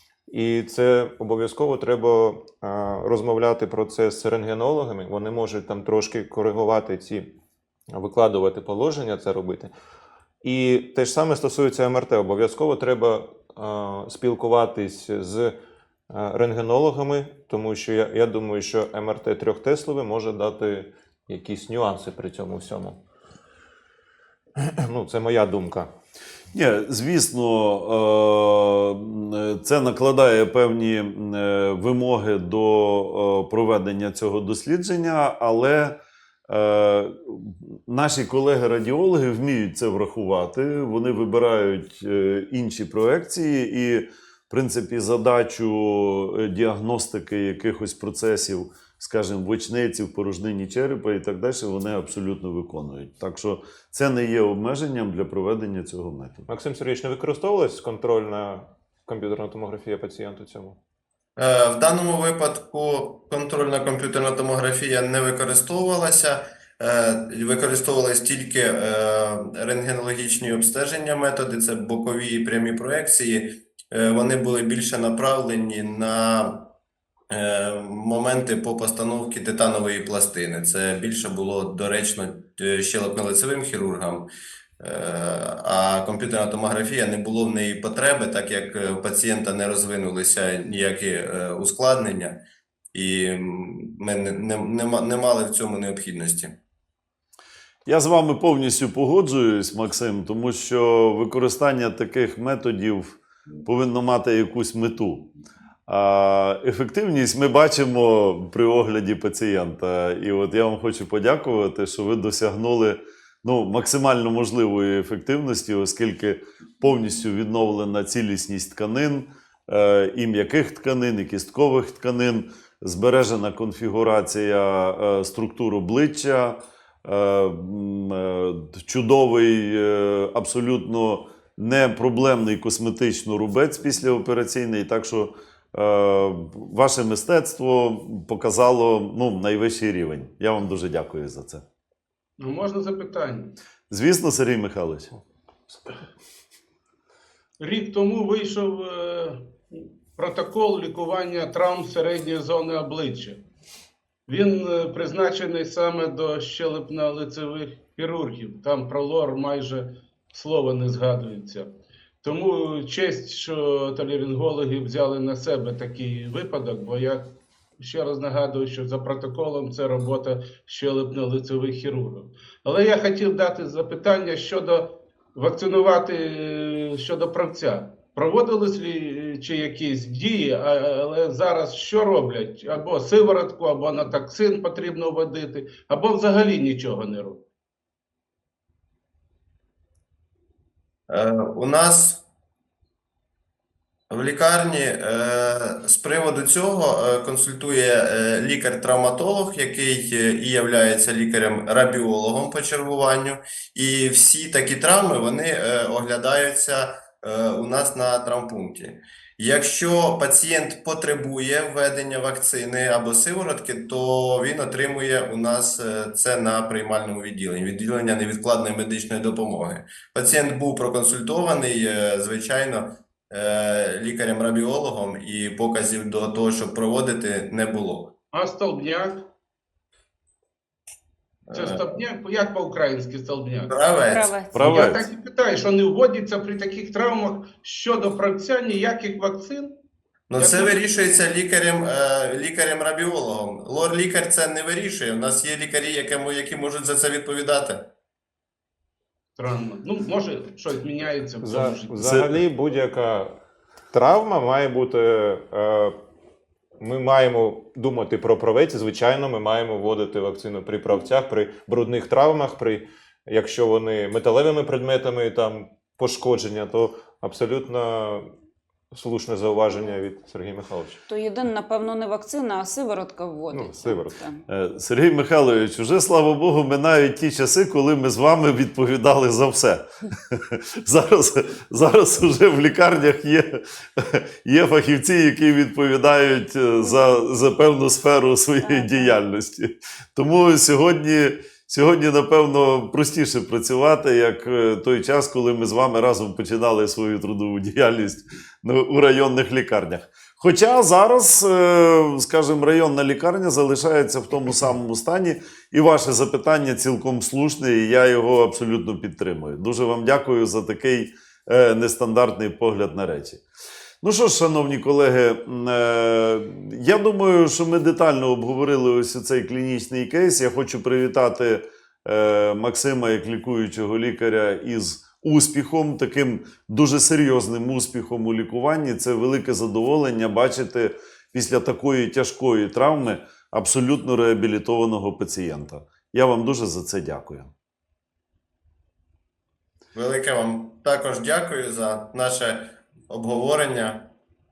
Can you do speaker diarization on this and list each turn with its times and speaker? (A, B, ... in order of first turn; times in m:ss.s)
0:00.3-0:07.3 A
0:07.9-0:09.7 A
0:10.4-0:15.5 A
0:16.1-0:23.0 A
0:24.6-0:25.9 A
0:26.5-0:56.4 B
0:56.5-1:00.8 A
1:01.4-1:16.7 C
1:17.3-1:24.3 C
1:24.8-1:32.4 C
1:32.9-1:36.6 C
1:37.8-1:45.3 B
1:45.9-2:21.6 B
2:22.4-2:23.5 D
2:23.9-2:25.1 B
2:27.6-2:33.4 D
2:34.3-2:41.7 D
2:42.2-3:07.4 D
3:11.1-3:12.2 C
3:14.1-3:48.1 C
3:48.3-3:49.3 D
3:51.5-3:51.9 C
3:51.5-3:53.7 D
3:53.7-3:54.3 C
3:54.0-3:55.0 E
3:54.5-3:55.0 B
3:54.6-3:59.7 D
4:00.3-4:07.9 C
4:00.4-4:01.0 D
4:09.4-4:12.1 D
4:11.4-4:13.4 A
4:13.9-4:15.9 A
4:16.8-4:28.2 A
4:28.9-4:31.0 A
4:31.1-4:34.4 E
4:33.5-4:34.2 A
4:34.5-5:13.4 B
4:48.6-4:49.1 E
5:14.0-5:37.5 B
5:39.9-5:44.1 C